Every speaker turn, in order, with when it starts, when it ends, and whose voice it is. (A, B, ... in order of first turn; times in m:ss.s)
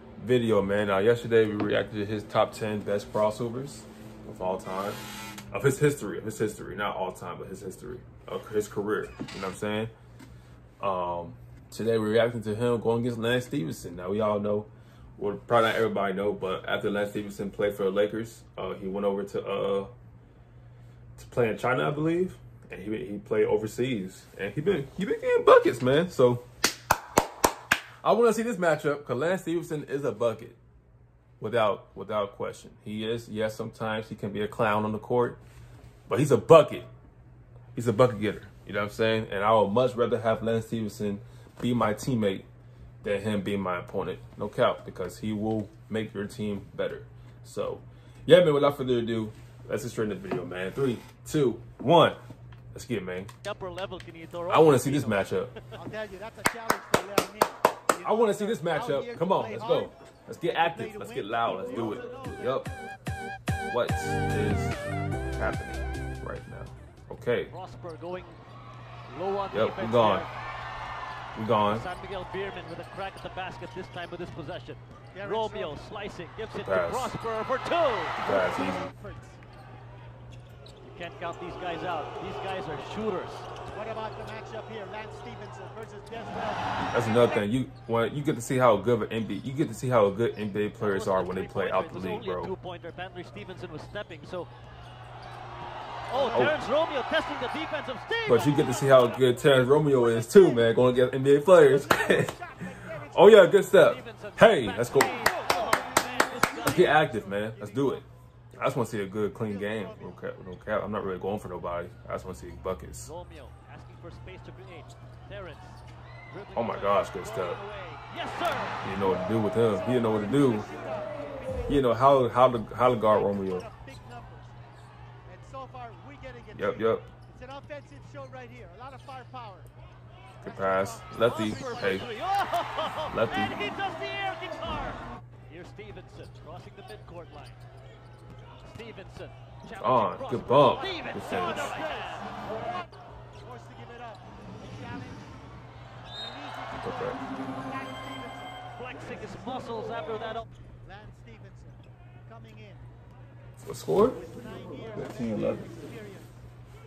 0:00.2-0:09.9 A
0:10.8-0:19.9 A
0:21.2-0:26.4 A
0:28.0-0:30.6 A
0:31.4-0:35.4 A
0:36.1-0:36.9 A
0:37.7-0:42.5 A
0:43.0-0:52.2 A
0:52.7-0:53.3 A
0:53.4-0:55.7 B
0:54.5-0:55.5 A
0:55.7-0:59.9 C
0:58.0-1:02.7 A
1:00.5-1:02.5 C
1:03.7-1:04.8 A
1:05.4-1:07.5 A
1:07.5-1:08.4 B
1:09.1-1:10.3 B
1:09.5-1:10.2 A
1:11.3-1:11.8 A
1:11.6-1:18.2 B
1:15.1-1:15.8 C
1:16.5-1:17.1 A
1:18.2-1:18.9 A
1:18.2-1:19.4 C
1:20.8-1:23.5 B
1:23.7-1:27.4 C
1:26.9-1:32.5 A
1:30.8-1:34.5 B
1:36.1-1:39.4 B
1:36.1-1:36.5 C
1:36.3-1:36.6 A
1:38.2-1:42.4 A
1:39.8-1:40.8 C
1:41.5-1:43.7 C
1:43.0-1:45.2 A
1:43.7-1:47.0 B
1:45.1-1:48.0 C
1:46.6-1:53.1 A
1:49.3-1:50.2 C
1:53.0-1:58.8 B
1:56.6-1:57.6 A
1:58.8-2:00.7 A
1:59.7-2:01.9 C
2:01.7-2:03.7 A
2:02.8-2:04.6 C
2:05.2-2:09.7 C
2:06.5-2:07.1 A
2:10.4-2:12.1 A
2:10.4-2:12.1 C
2:11.2-2:17.6 B
2:13.1-2:13.6 A
2:18.6-2:22.3 B
2:19.7-2:21.8 A
2:21.1-2:22.3 C
2:23.4-2:25.4 C
2:26.1-2:29.8 C
2:26.8-2:27.2 A
2:28.8-2:30.4 B
2:30.8-2:32.9 C
2:33.6-2:34.2 A
2:34.1-2:36.4 C
2:34.9-2:35.7 A